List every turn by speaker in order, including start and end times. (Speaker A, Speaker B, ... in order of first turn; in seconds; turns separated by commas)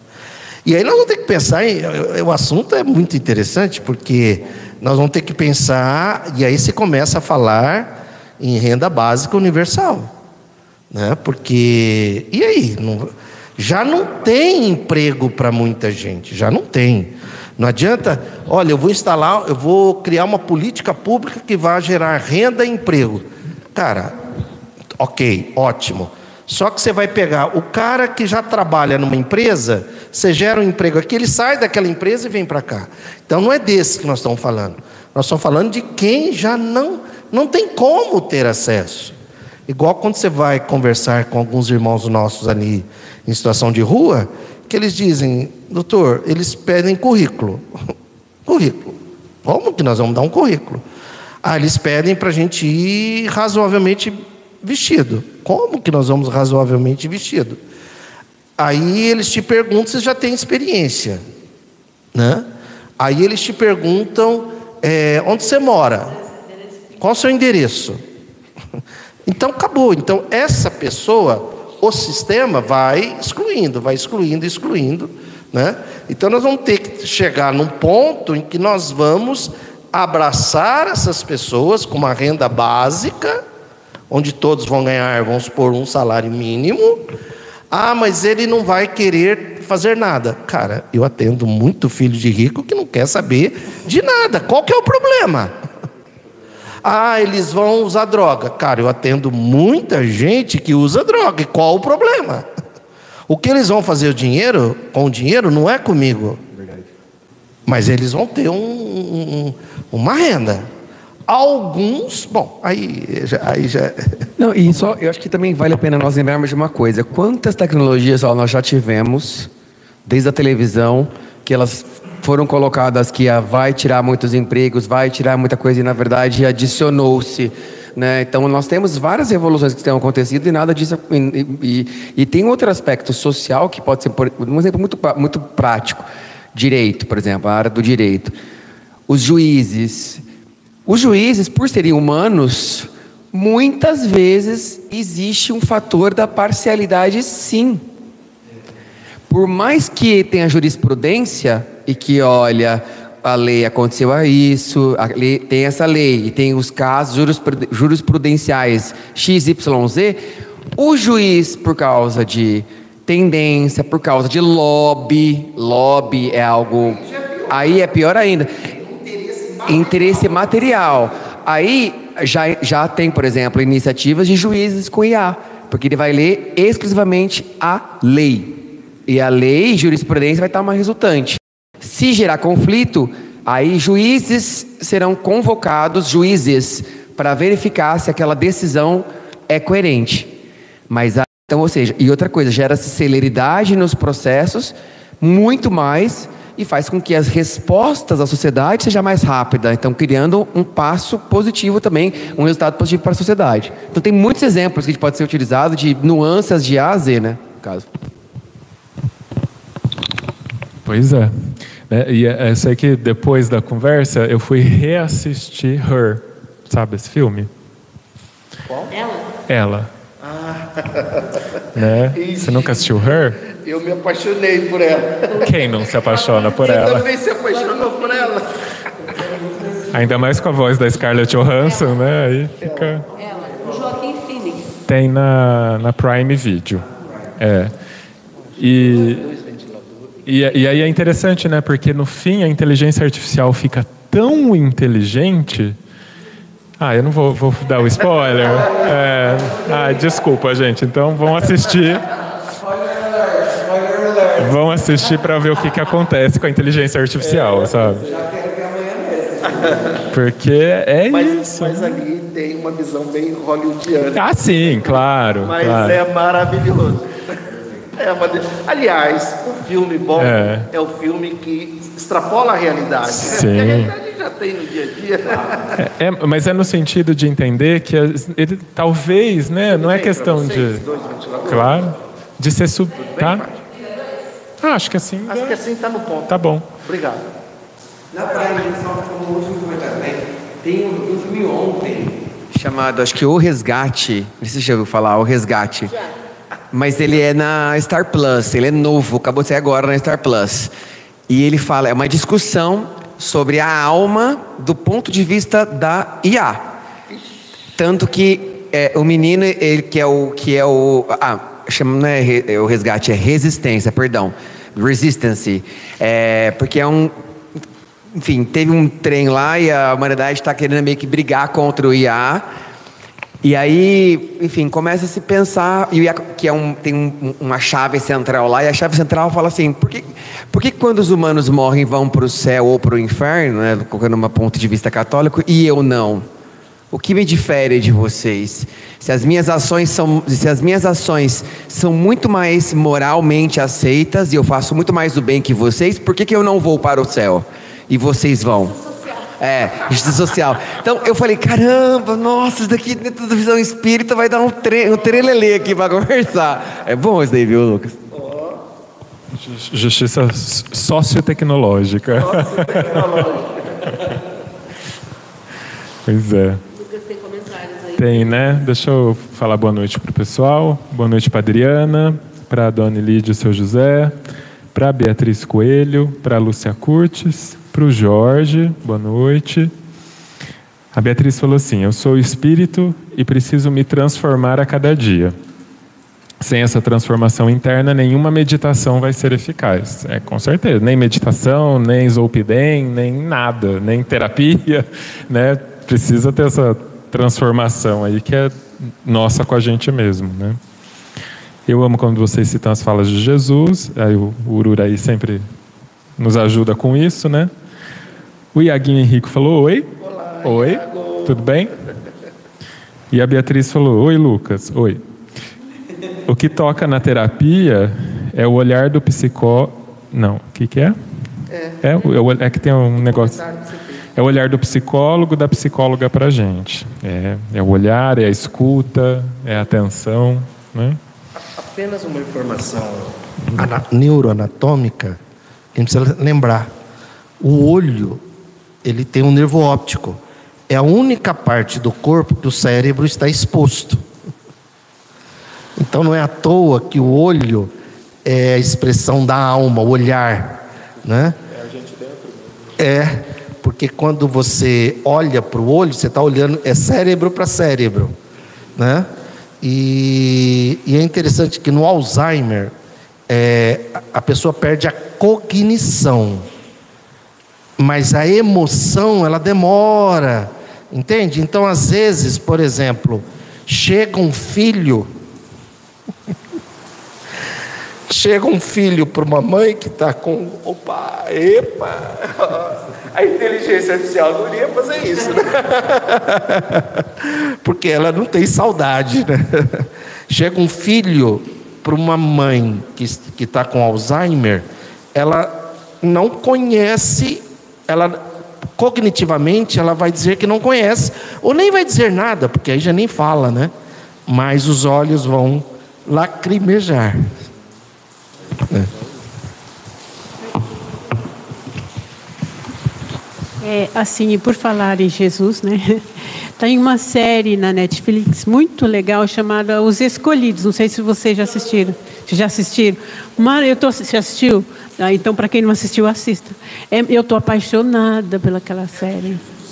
Speaker A: 0.6-10.1, Speaker A: 10.9-24.2, Speaker A: 25.0-39.1, Speaker A: 39.7-47.6, Speaker A: 48.5-50.8, Speaker A: 51.4-57.6, Speaker A: 58.6-61.2, Speaker A: 62.1-62.5, Speaker A: 63.0-66.2, Speaker A: 67.0-68.0, Speaker A: 69.2-83.4, Speaker A: 84.1-87.1, Speaker A: 87.7-95.5, Speaker A: 96.8-102.5, Speaker A: 103.3-106.4, Speaker A: 107.7-110.7, Speaker A: 111.3-114.2, Speaker B: 114.4-119.5, Speaker B: 120.0-138.3, Speaker B: 139.1-140.2, Speaker B: 140.8-147.8, Speaker B: 149.3-160.2, Speaker B: 160.7-168.5, Speaker A: 166.8-170.7, Speaker B: 169.7-190.3, Speaker B: 190.9-207.9, Speaker C: 210.8-217.5, Speaker A: 218.7-218.9, Speaker C: 219.5-219.9, Speaker A: 220.2-221.6, Speaker C: 221.7-223.4, Speaker A: 222.1-228.7, Speaker C: 225.4-227.1, Speaker C: 229.9-233.1, Speaker A: 232.6-233.1, Speaker D: 233.3-234.7, Speaker A: 233.6-234.0, Speaker C: 234.8-236.9, Speaker C: 237.4-237.7, Speaker C: 238.6-239.3, Speaker A: 238.6-240.1, Speaker C: 240.2-245.8, Speaker C: 246.8-252.1, Speaker B: 252.6-254.4, Speaker C: 254.3-258.1, Speaker A: 257.2-258.1, Speaker B: 258.0-259.9, Speaker A: 259.6-259.9, Speaker C: 260.1-262.0, Speaker A: 261.1-267.1, Speaker C: 264.1-266.0, Speaker A: 267.9-275.8, Speaker C: 270.2-270.7, Speaker C: 273.2-273.9, Speaker C: 275.8-280.8, Speaker A: 279.7-281.9, Speaker C: 281.4-283.4, Speaker A: 283.1-283.7, Speaker C: 284.6-285.6, Speaker A: 285.3-287.3, Speaker C: 286.3-286.7, Speaker B: 288.1-296.0, Speaker B: 296.7-300.7, Speaker B: 301.3-306.7, Speaker B: 307.7-317.1, Speaker B: 318.1-322.4, Speaker B: 323.4-336.3, Speaker B: 336.9-348.9, Speaker B: 349.4-358.0, Speaker A: 358.1-358.6, Speaker C: 359.4-363.3, Speaker A: 362.1-363.8, Speaker C: 366.1-366.6, Speaker D: 366.8-368.1, Speaker C: 368.0-374.1, Speaker C: 374.7-379.7, Speaker C: 380.9-385.3, Speaker C: 386.4-400.6, Speaker C: 401.7-405.4, Speaker C: 406.2-407.5, Speaker C: 408.5-411.7, Speaker A: 410.0-411.5, Speaker C: 413.1-415.0, Speaker C: 416.2-421.0, Speaker A: 421.5-422.1, Speaker C: 421.8-423.4, Speaker A: 423.0-423.9, Speaker C: 424.1-431.0, Speaker A: 431.4-435.2, Speaker A: 435.7-436.7, Speaker A: 437.4-438.2, Speaker A: 438.8-444.0, Speaker A: 445.8-447.7, Speaker A: 448.2-451.4, Speaker C: 451.6-452.5, Speaker A: 452.8-458.1, Speaker A: 458.8-462.7, Speaker A: 463.3-466.5, Speaker A: 467.8-475.1, Speaker A: 478.1-503.7, Speaker A: 504.3-507.3, Speaker A: 508.6-508.9, Speaker E: 513.6-529.5